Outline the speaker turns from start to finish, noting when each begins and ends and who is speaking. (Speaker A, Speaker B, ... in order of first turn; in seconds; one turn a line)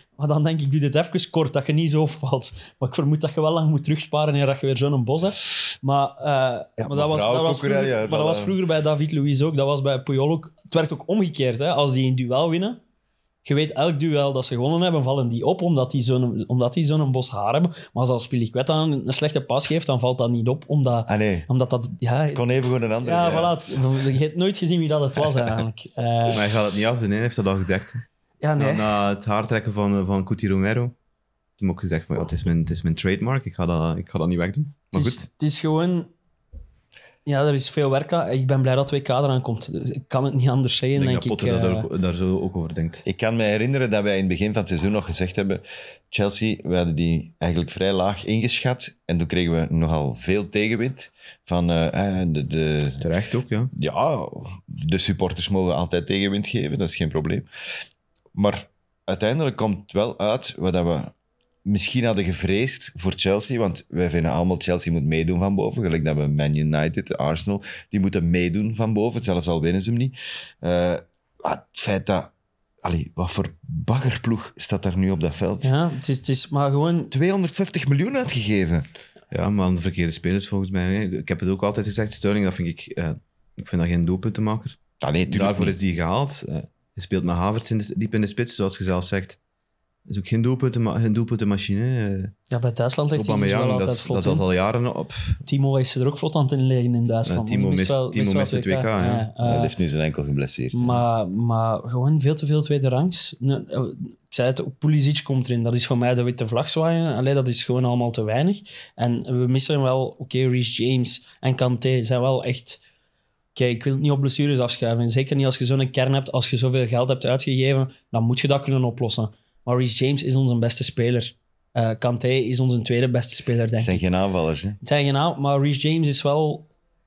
Speaker A: 0.2-12.8
Speaker B: 6.8-8.6
Speaker A: 13.4-22.4
Speaker B: 21.1-21.5
Speaker B: 22.3-23.6
Speaker A: 23.0-26.4
Speaker C: 26.3-28.0
Speaker A: 28.4-28.9
Speaker C: 28.6-30.9
Speaker C: 31.6-35.3
Speaker A: 34.9-36.1
Speaker A: 37.3-41.9
Speaker C: 41.0-43.0
Speaker B: 43.0-53.1
Speaker C: 53.0-53.7
Speaker B: 53.8-57.5
Speaker B: 58.3-61.1
Speaker B: 61.6-75.7
Speaker A: 75.6-77.1
Speaker B: 77.1-78.9
Speaker C: 79.3-89.4
Speaker B: 85.0-85.8
Speaker C: 90.1-92.3
Speaker A: 92.5-94.5
Speaker C: 93.2-95.4
Speaker A: 95.5-99.7
Speaker C: 97.3-99.3
Speaker B: 99.4-101.1
Speaker A: 100.7-112.8
Speaker A: 113.5-124.0
Speaker B: 123.8-124.8
Speaker A: 124.8-126.7